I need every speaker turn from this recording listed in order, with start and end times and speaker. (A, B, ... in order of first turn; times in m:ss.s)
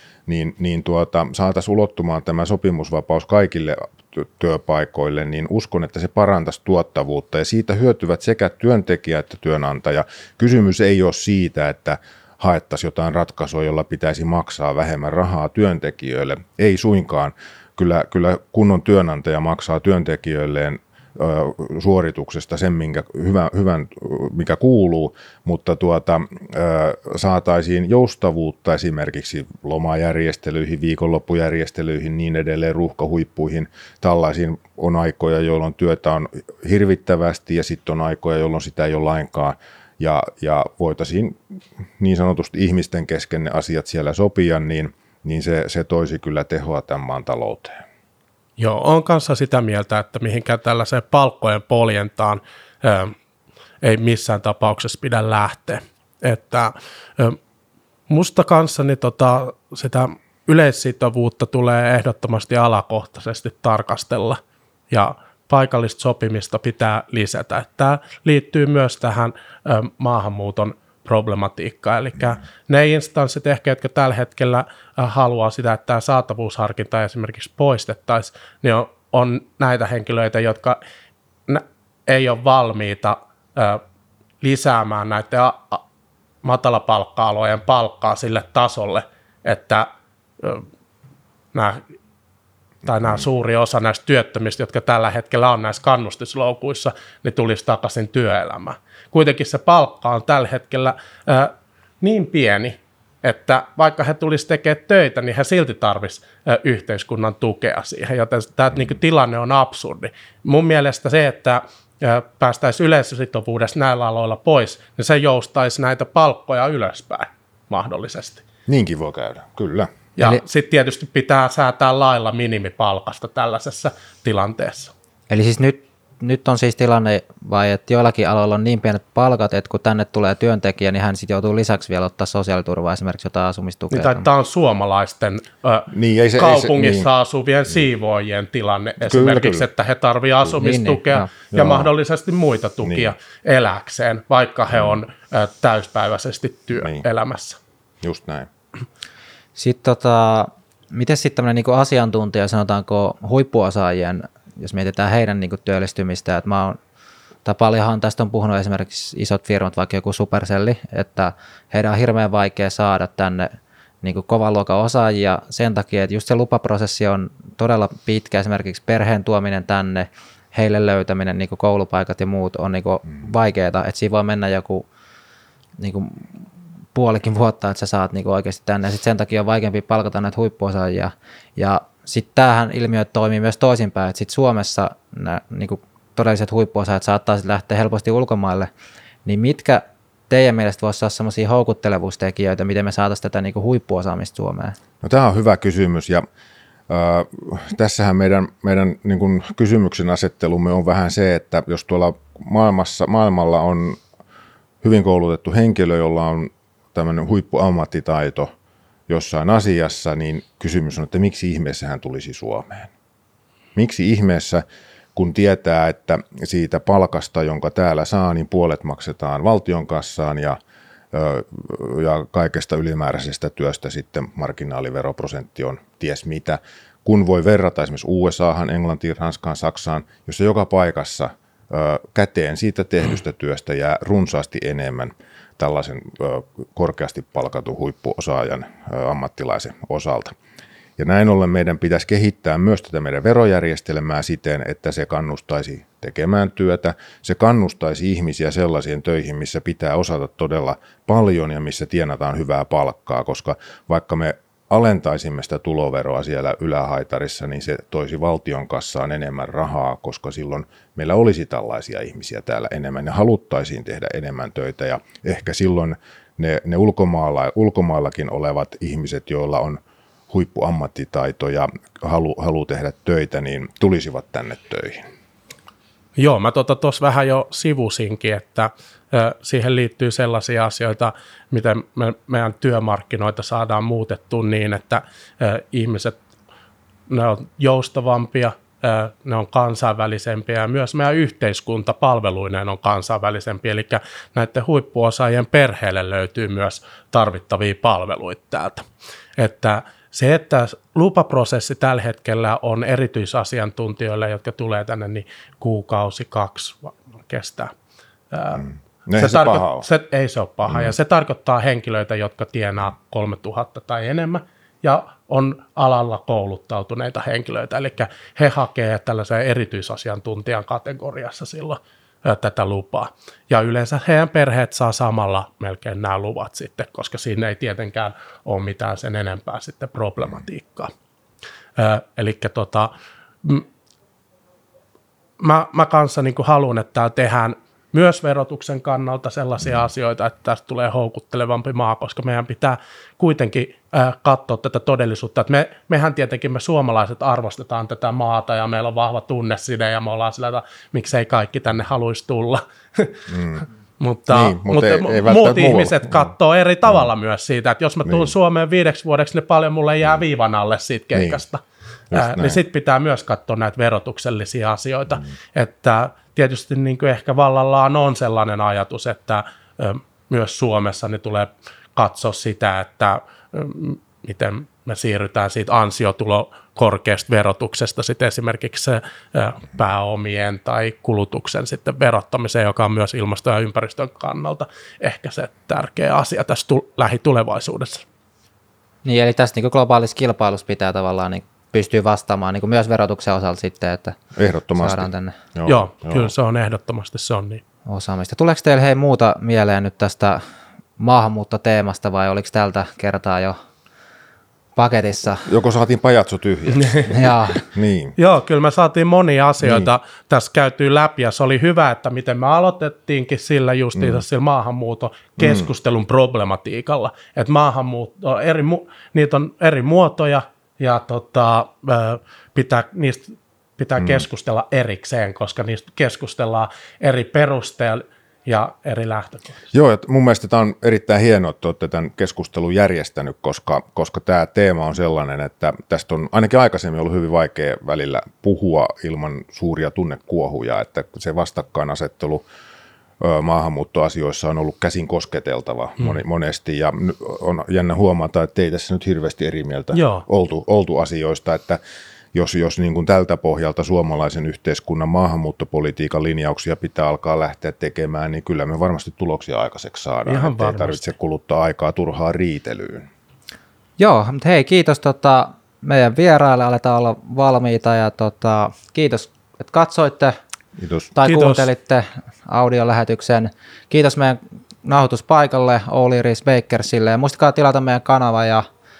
0:00.3-0:41.4 A
0:42.0-0:47.8 A
0:48.6-0:53.1 B
0:53.8-0:57.4 B
0:58.1-1:20.8 B
1:21.5-1:23.8 B
1:24.4-1:25.8 B
1:26.4-1:29.9 B
1:30.4-1:30.6 B
1:31.5-1:31.8 B
1:32.8-1:58.4 B
1:58.7-1:59.9 A
2:00.2-2:04.9 B
2:05.3-2:14.2 C
2:13.9-2:27.6 B
2:15.9-2:17.1 A
2:19.0-2:19.7 A
2:20.6-2:21.3 C
2:21.5-2:21.9 A
2:22.8-2:23.1 A
2:24.7-2:25.0 A
2:28.0-2:28.5 A
2:29.6-2:36.8 C
2:37.4-2:54.8 C
2:55.8-3:08.7 C
3:09.2-3:14.8 C
3:15.0-3:16.2 A
3:16.9-3:24.0 A
3:24.8-3:28.5 A
3:29.1-3:32.9 A
3:33.8-3:34.6 A
3:35.1-3:40.6 A
3:41.1-4:00.3 A
4:01.0-4:29.8 A
4:30.3-4:35.0 A
4:36.2-4:46.2 B
4:47.1-5:07.7 B
5:08.3-5:30.9 B
5:09.1-5:09.8 A
5:10.7-5:10.9 A
5:31.8-5:32.9 B
5:35.4-5:53.3 B
5:53.3-5:53.6 A
5:54.0-6:01.6 B
5:54.3-5:56.3 A
6:01.1-6:01.4 A
6:02.1-6:02.6 A
6:02.1-6:28.0 B
6:29.0-6:34.2 C
6:34.4-6:36.3 A
6:34.8-6:35.4 C
6:35.7-6:37.6 B
6:37.8-6:40.4 C
6:41.0-6:43.6 C
6:44.8-6:45.5 C
6:45.4-6:48.1 A
6:47.1-6:47.6 C
6:48.2-7:09.6 B
6:49.6-6:49.9 A
6:54.0-6:54.2 A
6:55.4-6:55.7 A
7:04.0-7:04.3 A
7:09.7-7:22.4 A
7:23.2-7:31.8 A
7:29.9-7:30.2 B
7:32.3-7:43.1 A
7:40.2-7:41.1 B
7:44.0-7:50.4 C
7:50.8-7:51.1 A
7:51.1-7:58.6 C
7:51.2-7:51.7 B